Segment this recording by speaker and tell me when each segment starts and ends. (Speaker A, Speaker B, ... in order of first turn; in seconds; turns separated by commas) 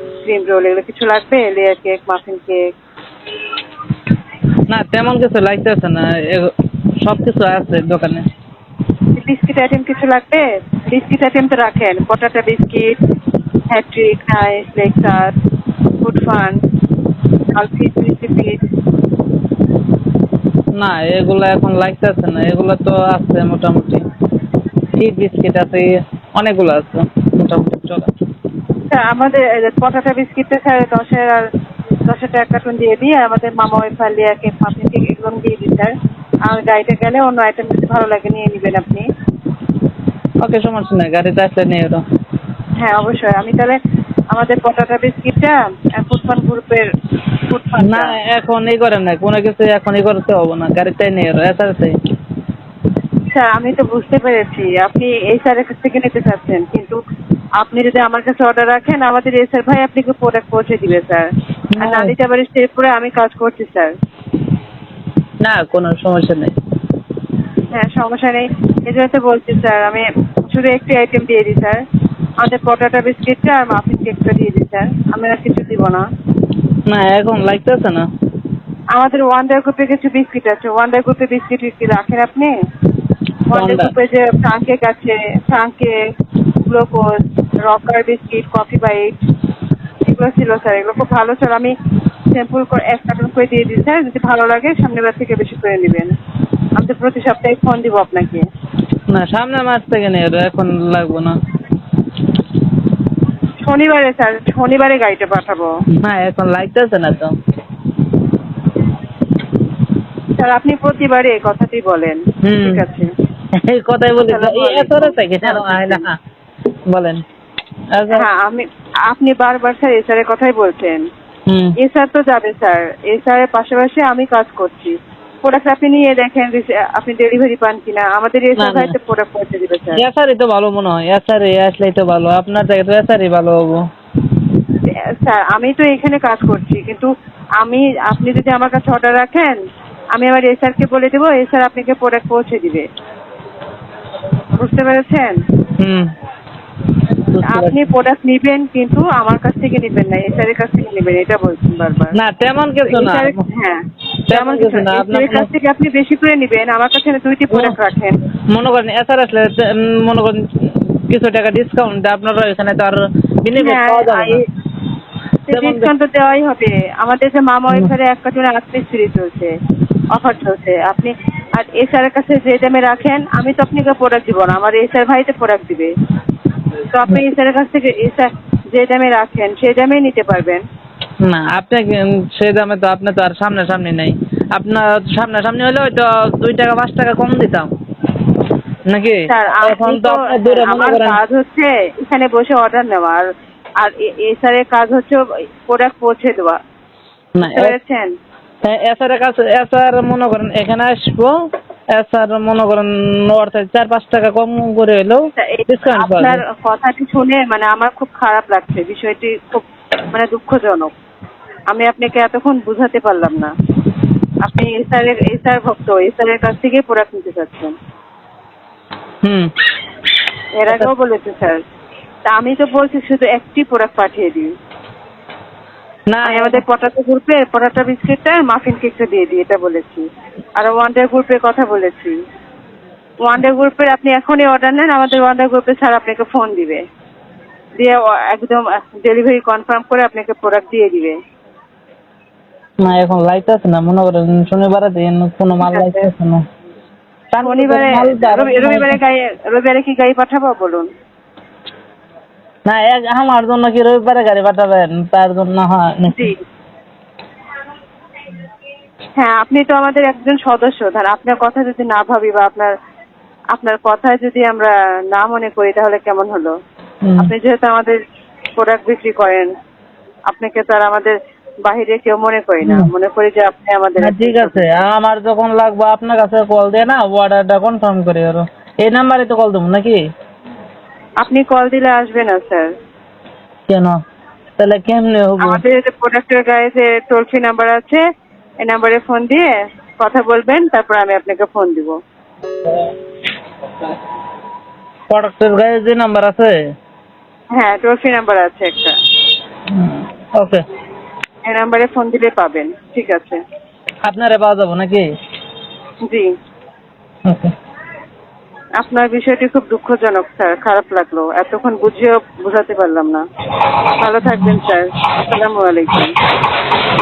Speaker A: 0.2-2.7, Speaker B: 4.7-6.5, Speaker B: 7.0-8.2, Speaker A: 9.2-12.9, Speaker A: 13.7-15.3, Speaker A: 16.0-16.6, Speaker A: 17.5-18.6, Speaker B: 20.8-24.0, Speaker B: 25.0-28.1, Speaker A: 28.9-31.4, Speaker A: 32.1-35.9, Speaker A: 36.5-39.0, Speaker B: 40.4-42.0, Speaker A: 42.8-43.8, Speaker A: 44.3-46.9, Speaker A: 47.5-48.2, Speaker B: 47.8-52.0, Speaker A: 53.3-57.0, Speaker A: 57.6-61.3, Speaker B: 61.7-62.1, Speaker A: 61.8-63.9, Speaker B: 65.4-66.5, Speaker A: 67.7-71.8, Speaker A: 72.4-76.0, Speaker B: 76.9-78.0, Speaker A: 78.9-82.5, Speaker A: 83.5-86.0, Speaker B: 83.5-83.9, Speaker A: 86.6-87.1, Speaker A: 87.6-89.1, Speaker A: 90.0-91.7, Speaker A: 92.3-96.1, Speaker A: 96.8-98.5, Speaker B: 99.1-101.3, Speaker A: 103.6-105.7, Speaker B: 106.0-107.3, Speaker A: 110.4-113.1, Speaker B: 112.4-112.8, Speaker B: 113.6-116.1, Speaker A: 114.2-116.0, Speaker B: 116.9-117.2, Speaker B: 117.9-118.2, Speaker A: 118.1-121.0, Speaker B: 121.5-121.7, Speaker A: 121.8-130.0, Speaker B: 128.6-128.9, Speaker B: 130.0-133.8, Speaker A: 134.9-139.6, Speaker A: 140.1-142.8, Speaker A: 144.6-145.4, Speaker B: 147.3-147.9, Speaker A: 147.4-152.2, Speaker B: 152.2-153.4, Speaker A: 152.9-153.8, Speaker B: 154.3-155.5, Speaker A: 154.3-158.2, Speaker B: 158.5-164.4, Speaker A: 163.6-164.4, Speaker A: 165.5-169.5, Speaker B: 165.5-165.9, Speaker A: 170.1-175.9, Speaker A: 176.9-180.6, Speaker B: 181.2-187.7, Speaker B: 188.9-191.2, Speaker A: 189.3-193.3, Speaker A: 193.8-196.6, Speaker B: 197.3-197.8, Speaker A: 197.5-198.1, Speaker B: 198.6-201.3, Speaker B: 201.9-206.4, Speaker A: 205.4-210.9, Speaker A: 211.7-213.5, Speaker A: 214.4-217.7, Speaker A: 220.6-221.6, Speaker A: 222.3-224.5, Speaker B: 226.1-226.6, Speaker A: 226.2-230.0, Speaker A: 230.6-232.1, Speaker A: 233.2-236.8, Speaker A: 237.8-241.2, Speaker B: 242.8-246.4, Speaker A: 245.6-246.1, Speaker B: 247.3-249.0, Speaker A: 247.4-250.9, Speaker B: 252.7-256.3, Speaker A: 256.1-256.4, Speaker A: 259.2-262.7, Speaker A: 263.5-266.5, Speaker B: 267.0-267.3, Speaker A: 267.2-268.0, Speaker A: 268.6-269.5, Speaker A: 270.3-271.1, Speaker A: 271.6-274.7, Speaker B: 272.6-272.9, Speaker B: 274.0-280.0, Speaker A: 281.2-282.7, Speaker B: 283.7-284.0, Speaker B: 284.6-285.6, Speaker A: 285.4-288.0, Speaker A: 288.6-292.0, Speaker B: 292.7-292.9, Speaker B: 295.1-296.5, Speaker A: 297.5-298.9, Speaker B: 299.7-300.6, Speaker A: 301.4-303.4, Speaker B: 304.1-305.0, Speaker B: 307.3-307.5, Speaker A: 308.8-313.2, Speaker A: 314.0-316.1, Speaker B: 314.2-314.6